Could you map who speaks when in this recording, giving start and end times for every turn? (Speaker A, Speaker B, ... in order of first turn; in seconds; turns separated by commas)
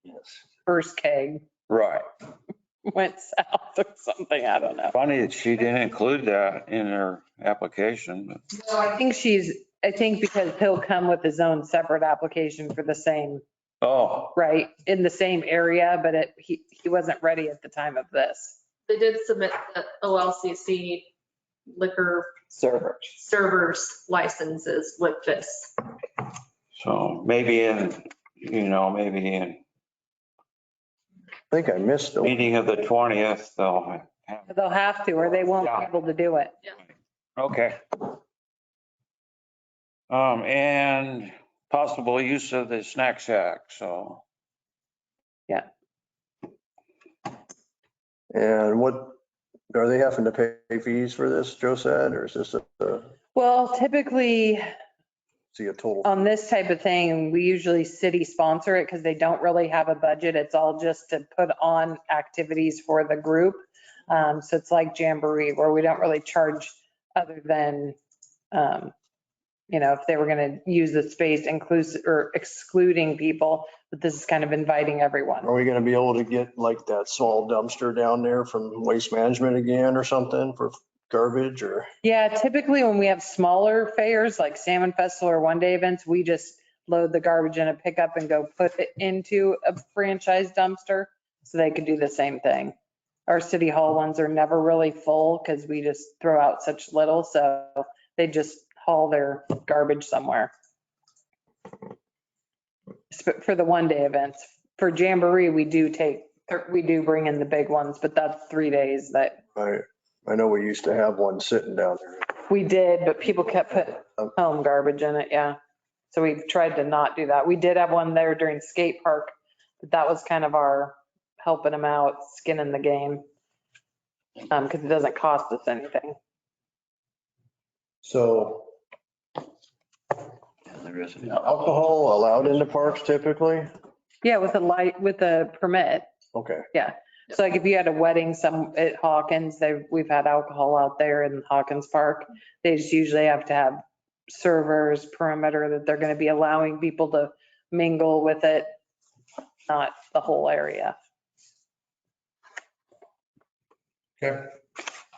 Speaker A: 0.7-1.4, Speaker B: 1.7-2.1, Speaker A: 2.9-5.0, Speaker B: 4.9-8.4, Speaker A: 8.6-13.4, Speaker B: 13.8-14.3, Speaker A: 14.3-18.6, Speaker C: 18.9-21.1, Speaker C: 21.7-22.3, Speaker A: 22.5-23.2, Speaker C: 23.2-25.9, Speaker B: 26.8-29.6, Speaker D: 31.5-32.4, Speaker B: 32.2-34.5, Speaker A: 34.5-36.6, Speaker B: 37.4-38.2, Speaker B: 40.1-44.2, Speaker D: 48.3-49.2, Speaker D: 49.7-53.1, Speaker A: 53.4-54.7, Speaker D: 55.5-56.1, Speaker A: 56.0-68.0, Speaker A: 68.5-68.9, Speaker A: 69.7-75.5, Speaker D: 75.4-81.9, Speaker A: 82.0-92.7, Speaker A: 93.3-100.5, Speaker A: 103.1-109.4, Speaker D: 109.5-112.3, Speaker A: 112.5-115.6, Speaker A: 116.1-123.2, Speaker A: 124.5-126.2, Speaker D: 128.0-128.7, Speaker D: 131.2-133.7, Speaker A: 134.2-136.1, Speaker D: 136.3-136.7, Speaker A: 136.7-148.8, Speaker A: 149.7-150.9